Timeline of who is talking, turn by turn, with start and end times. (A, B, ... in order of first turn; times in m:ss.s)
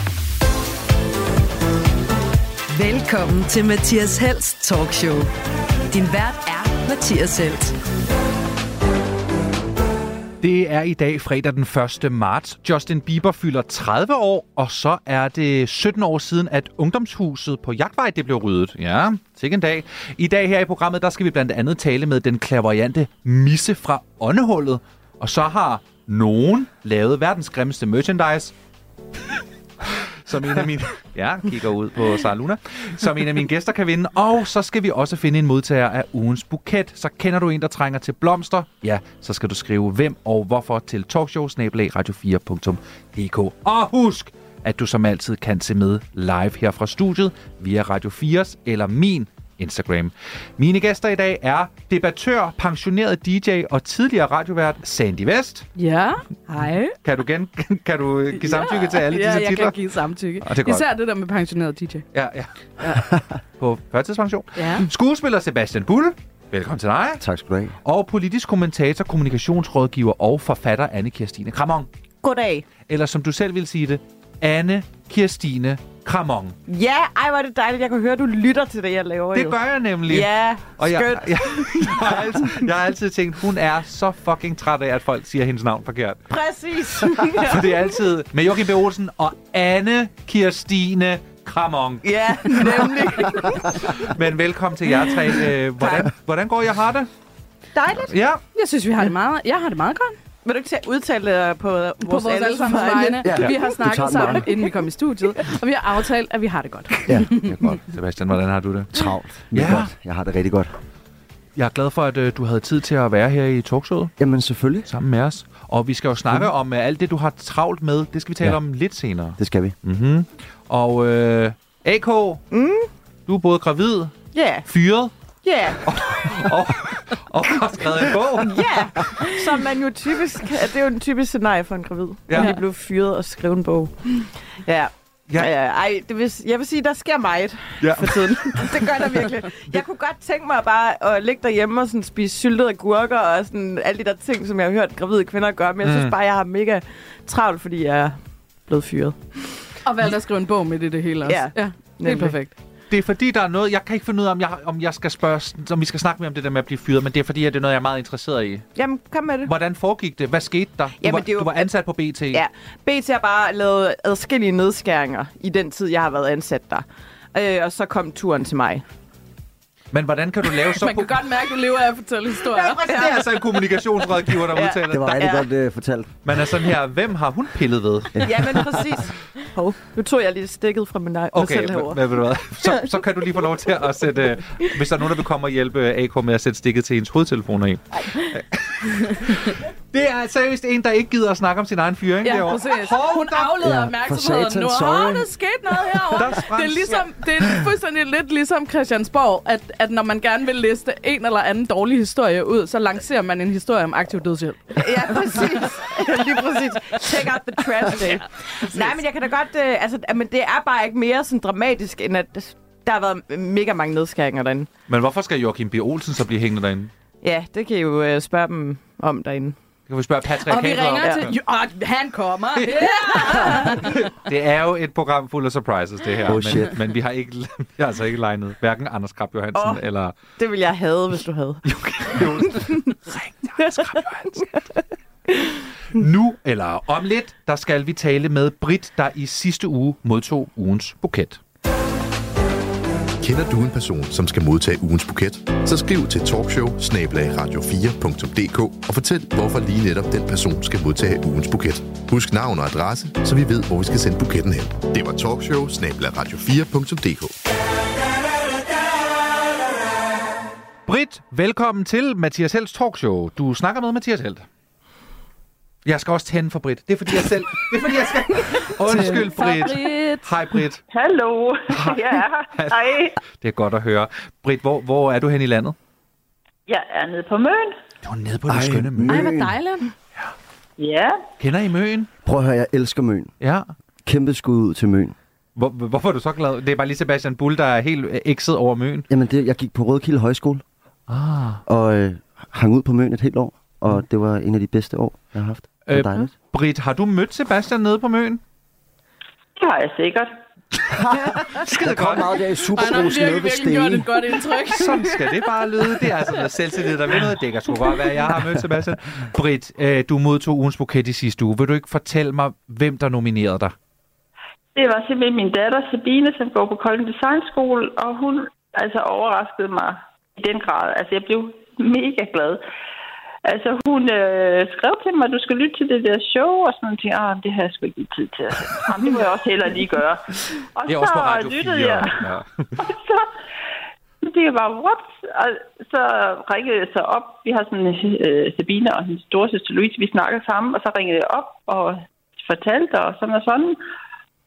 0:02.7-0:05.3 A
0:05.9-0:07.7 A
0:10.4-0:28.5 B
0:30.2-0:55.6 B
0:55.8-0:57.0 C
0:57.0-0:59.8 B
0:58.3-1:02.0 C
1:00.4-1:00.9 B
1:02.1-1:03.0 B
1:03.6-1:07.2 B
1:04.6-1:04.8 C
1:07.2-1:07.8 D
1:07.8-1:11.9 B
1:12.2-1:12.7 E
1:12.8-1:16.6 B
1:16.7-1:22.7 E
1:19.3-1:26.2 B
1:26.3-1:27.8 E
1:27.4-1:32.8 B
1:32.0-1:34.1 E
1:34.0-1:37.1 B
1:35.0-1:36.1 E
1:37.7-1:38.1 E
1:38.1-1:38.4 B
1:38.5-1:40.2 C
1:40.4-1:44.3 E
1:42.0-1:47.5 C
1:43.2-1:44.5 D
1:47.1-1:47.8 D
1:47.7-1:49.9 B
1:48.9-1:50.7 D
1:51.6-1:54.1 B
1:54.2-1:54.9 D
1:54.9-2:02.4 B
1:59.4-1:59.8 D
2:02.5-2:02.9 E
2:03.3-2:05.1 B
2:04.3-2:04.7 E
2:05.4-2:06.3 E
2:05.8-2:08.7 B
2:08.2-2:13.9 E
2:12.3-2:12.6 B
2:14.6-2:29.6 E
2:17.8-2:18.7 B
2:25.8-2:26.2 B
2:29.8-2:32.5 C
2:31.2-2:32.4 E
2:32.9-2:38.7 B
2:38.8-2:39.5 E
2:39.4-2:42.4 B
2:41.0-2:41.7 E
2:42.3-2:48.8 E
2:49.9-2:51.2 B
2:50.7-2:53.0 C
2:52.5-2:55.5 E
2:52.9-2:55.2 B
2:54.9-2:56.2 D
2:56.2-2:58.4 B
2:58.2-3:04.0 E
3:01.3-3:13.6 B
3:12.2-3:25.7 C
3:13.6-3:15.3 D
3:16.1-3:17.0 B
3:24.8-3:34.7 E
3:34.9-3:36.9 B
3:37.2-3:39.6 E
3:39.9-3:41.2 B
3:40.4-3:44.0 C
3:42.8-3:50.2 B
3:46.2-3:46.7 D
3:49.5-3:52.8 E
3:51.6-3:54.4 B
3:53.6-3:54.6 E
3:55.9-4:01.4 B
4:03.2-4:17.4 F
4:20.8-4:24.4 B
4:25.8-4:30.8 B
4:28.8-4:30.3 C
4:30.9-4:33.2 G
4:31.7-4:32.0 B
4:32.5-4:35.7 B
4:36.7-4:37.8 G
4:38.0-4:39.3 B
4:38.5-4:39.5 D
4:39.1-4:39.9 C
4:40.8-4:41.2 G
4:41.4-4:42.1 B
4:42.2-4:43.3 D
4:43.4-4:43.7 B
4:44.0-4:45.1 D
4:45.6-4:49.1 B
4:49.1-4:50.6 D
4:51.1-4:51.6 B
4:51.6-4:56.3 D
4:55.8-4:58.4 B
4:59.6-5:00.4 G
5:01.0-5:04.2 D
5:01.4-5:02.4 B
5:02.7-5:05.2 C
5:04.7-5:13.7 B
5:14.7-5:22.6 G
5:23.4-5:32.2 G
5:30.9-5:32.8 B
5:32.8-5:33.3 G
5:34.2-5:43.8 G